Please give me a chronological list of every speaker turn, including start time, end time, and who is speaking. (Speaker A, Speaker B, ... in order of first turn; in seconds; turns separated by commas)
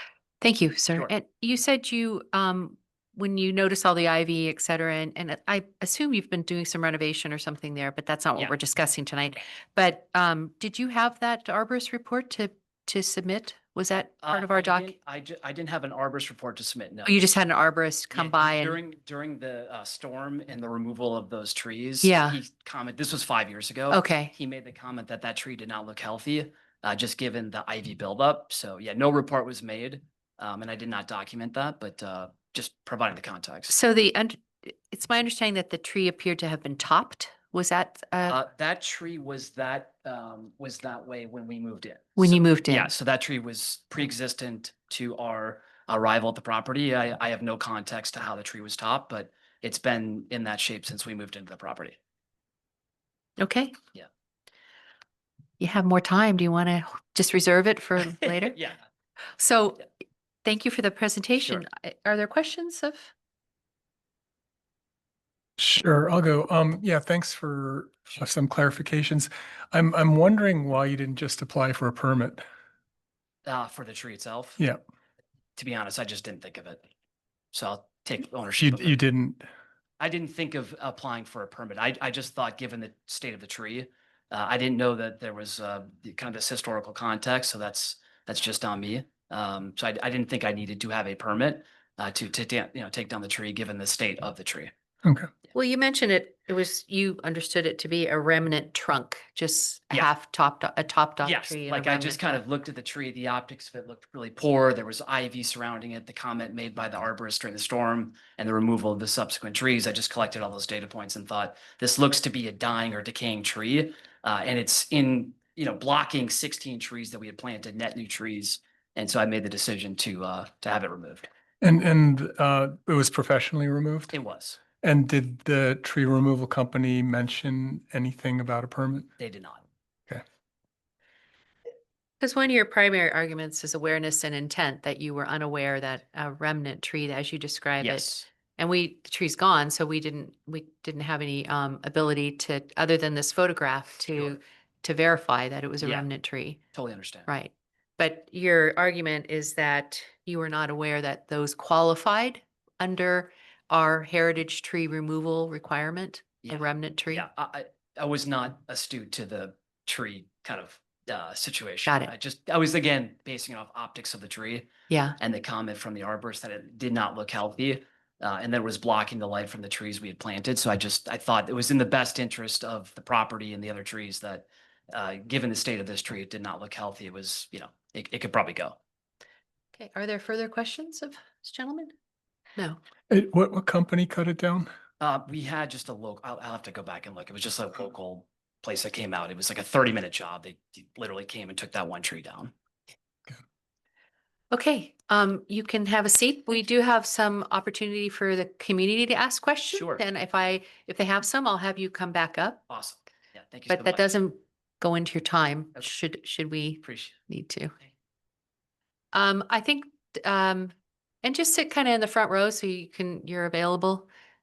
Speaker A: 0.4-14.9, Speaker B: 14.2-17.2, Speaker A: 17.1-18.8, Speaker B: 18.1-33.7, Speaker A: 22.0-22.4, Speaker A: 23.9-24.3, Speaker A: 33.7-38.4, Speaker B: 38.3-52.0, Speaker A: 42.2-42.9, Speaker A: 53.4-53.8, Speaker A: 55.6-58.6, Speaker A: 59.4-59.9, Speaker A: 60.5-63.1, Speaker C: 65.6-72.4, Speaker B: 73.5-74.6, Speaker B: 75.6-76.8, Speaker B: 77.5-79.0, Speaker C: 78.6-79.5, Speaker B: 80.0-94.7, Speaker C: 95.0-95.3, Speaker A: 95.5-102.3, Speaker B: 101.2-121.3, Speaker C: 121.6-124.1, Speaker B: 124.1-124.6, Speaker C: 124.8-129.1, Speaker B: 129.2-129.6, Speaker A: 132.2-146.6, Speaker B: 137.8-138.3, Speaker B: 145.8-146.1, Speaker B: 146.7-147.3, Speaker A: 147.3-157.3, Speaker B: 157.1-178.8, Speaker A: 161.9-162.1, Speaker A: 164.9-165.2, Speaker A: 179.8-181.9, Speaker C: 183.1-184.7, Speaker B: 185.0-192.5, Speaker A: 194.5-202.6, Speaker B: 199.7-200.0, Speaker B: 202.7-204.1, Speaker A: 203.7-207.8, Speaker B: 206.8-207.1, Speaker A: 209.1-214.1